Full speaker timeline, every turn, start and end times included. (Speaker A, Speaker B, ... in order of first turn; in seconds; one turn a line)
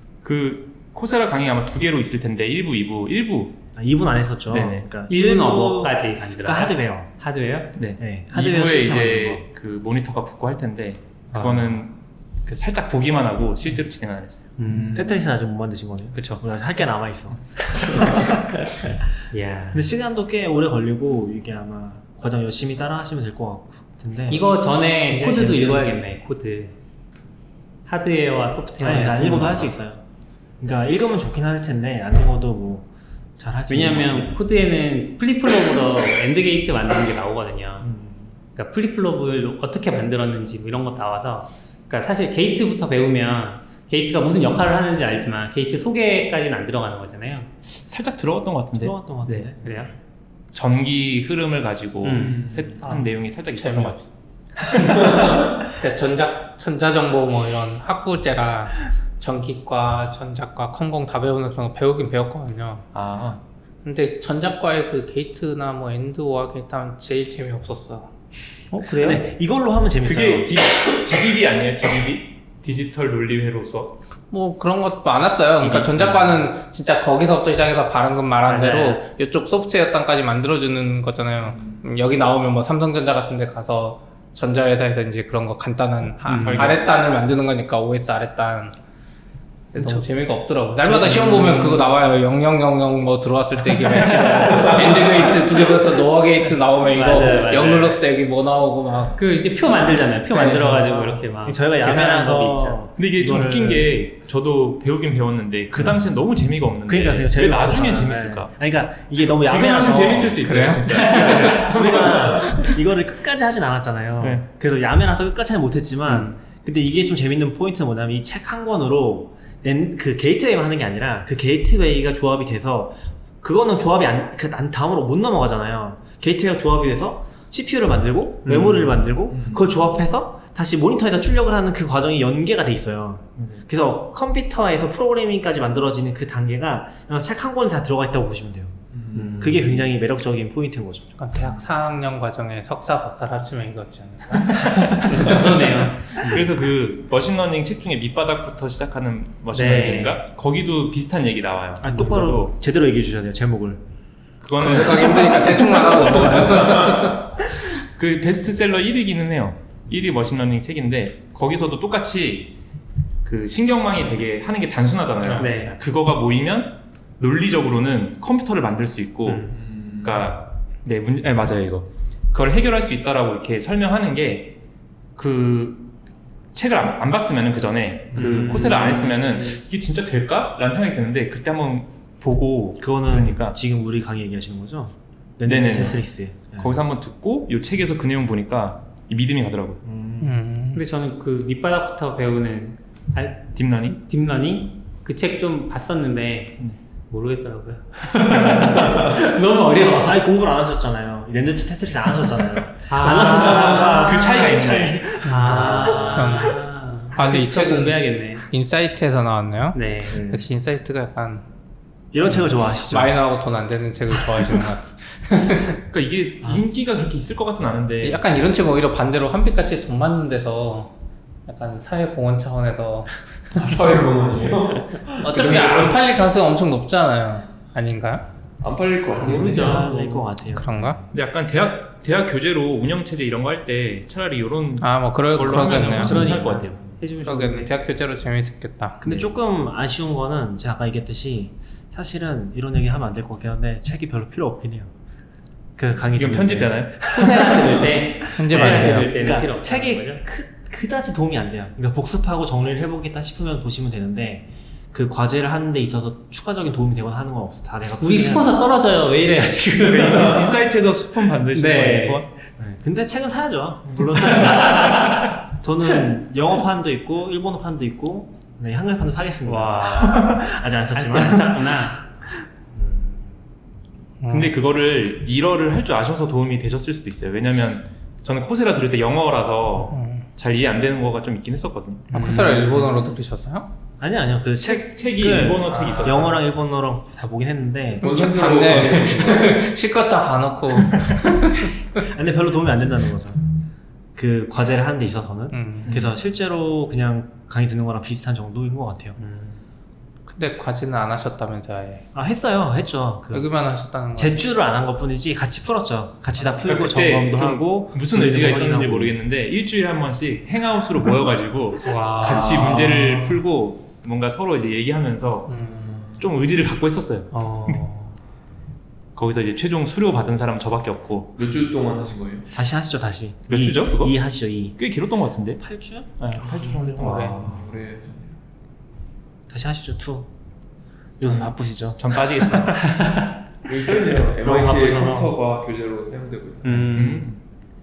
Speaker A: 0.2-3.6
Speaker B: 3.8-7.1
Speaker A: 4.5-4.9
Speaker C: 5.1-7.8
Speaker A: 7.8-14.5
Speaker B: 8.0-9.4
Speaker C: 11.3-11.8
Speaker C: 14.6-15.1
Speaker B: 14.9-18.4
Speaker A: 16.1-16.4
Speaker C: 19.3-19.9
Speaker B: 19.7-24.5
Speaker C: 24.3-26.7
Speaker B: 25.1-25.9
Speaker C: 27.9-29.7
Speaker B: 28.8-30.0
Speaker B: 30.6-34.4
Speaker C: 33.7-37.9
Speaker B: 37.8-38.3
Speaker C: 38.5-47.5
Speaker A: 47.7-49.5
Speaker B: 48.8-49.6
Speaker C: 49.6-49.9
Speaker A: 50.5-54.0
Speaker C: 52.0-53.1
Speaker D: 52.2-52.8
Speaker E: 53.6-54.0
Speaker E: 54.8-62.9
Speaker A: 62.9-63.4
Speaker E: 63.8-68.1
Speaker C: 68.7-69.2
Speaker B: 69.0-70.6
Speaker A: 70.0-74.0
Speaker E: 74.3-88.8
Speaker A: 75.6-76.4
Speaker C: 78.5-79.0
Speaker C: 86.3-86.8
Speaker A: 86.3-86.9
Speaker E: 89.7-99.2
Speaker C: 89.8-90.0
Speaker C: 90.8-91.9
Speaker C: 93.7-95.0
Speaker C: 96.8-98.0
Speaker C: 99.2-102.9
Speaker A: 100.4-100.8
Speaker B: 100.6-104.0
Speaker A: 103.0-108.5
Speaker B: 106.9-138.8
Speaker A: 109.3-112.8
Speaker E: 110.4-111.6
Speaker C: 111.2-111.7
Speaker A: 114.2-114.5
Speaker C: 116.1-116.4
Speaker C: 128.4-129.0
Speaker D: 129.3-129.7
Speaker A: 133.4-133.7
Speaker D: 138.9-139.9
Speaker C: 139.1-139.6
Speaker B: 139.3-141.1
Speaker E: 141.2-144.9
Speaker C: 144.8-146.5
Speaker A: 146.1-152.5
Speaker C: 149.5-150.2
Speaker B: 151.8-153.8
Speaker A: 154.4-157.0
Speaker E: 154.6-157.2
Speaker A: 157.8-162.5
Speaker A: 163.2-174.6
Speaker E: 165.2-165.6
Speaker C: 165.4-165.8
Speaker C: 169.2-169.6
Speaker D: 169.5-170.3
Speaker A: 175.2-175.9
Speaker A: 176.5-183.6
Speaker C: 178.2-179.2
Speaker B: 182.8-186.8
Speaker A: 185.4-189.8
Speaker B: 189.8-190.4
Speaker E: 190.2-190.8
Speaker C: 190.7-200.2
Speaker A: 193.5-194.0
Speaker B: 199.9-206.6
Speaker C: 202.9-204.2
Speaker A: 203.2-205.2
Speaker C: 205.2-208.5
Speaker E: 206.1-211.4
Speaker C: 209.7-210.3
Speaker B: 210.1-210.5
Speaker B: 212.1-213.2
Speaker E: 212.7-215.8
Speaker A: 215.9-218.2
Speaker E: 218.0-220.9
Speaker E: 221.5-223.1
Speaker D: 223.5-226.0
Speaker E: 225.2-228.3
Speaker D: 228.6-229.9
Speaker B: 229.2-231.0
Speaker C: 229.2-230.3
Speaker E: 230.5-231.0
Speaker A: 231.1-236.8
Speaker E: 234.8-236.3
Speaker C: 235.7-237.7
Speaker B: 236.3-236.6
Speaker E: 237.2-239.0
Speaker B: 239.0-244.9
Speaker B: 245.8-258.5
Speaker A: 246.1-247.7
Speaker C: 247.1-250.2
Speaker E: 248.4-249.1
Speaker C: 258.0-260.5
Speaker A: 259.8-262.3
Speaker C: 261.5-262.2
Speaker B: 262.6-272.0
Speaker C: 264.3-265.3
Speaker C: 269.5-272.0
Speaker C: 272.8-273.2
Speaker E: 274.2-274.6
Speaker A: 274.3-282.8
Speaker E: 279.9-280.2
Speaker E: 282.1-283.7
Speaker C: 282.2-282.5
Speaker B: 284.0-288.8
Speaker A: 284.6-286.4
Speaker D: 288.0-289.7
Speaker E: 288.0-291.7
Speaker B: 292.0-293.4
Speaker B: 294.1-299.2
Speaker E: 295.5-295.9
Speaker C: 299.2-299.6
Speaker E: 300.3-302.1
Speaker B: 302.1-303.5
Speaker E: 303.3-304.4
Speaker B: 304.2-309.2
Speaker A: 306.6-315.5
Speaker C: 311.8-313.0
Speaker D: 312.2-313.3
Speaker E: 315.5-316.0
Speaker D: 315.6-316.3
Speaker A: 316.2-317.8
Speaker C: 317.3-318.2
Speaker A: 319.2-321.4
Speaker D: 321.4-322.5
Speaker B: 322.5-324.8
Speaker A: 323.5-324.2
Speaker A: 324.8-325.6
Speaker B: 325.6-326.1
Speaker A: 326.2-327.6
Speaker E: 326.5-327.5
Speaker D: 327.1-328.4
Speaker B: 329.5-330.3
Speaker B: 331.2-332.9
Speaker A: 331.2-332.8
Speaker C: 332.9-333.3
Speaker D: 333.6-337.0
Speaker B: 334.2-335.3
Speaker C: 336.6-337.3
Speaker A: 336.9-337.4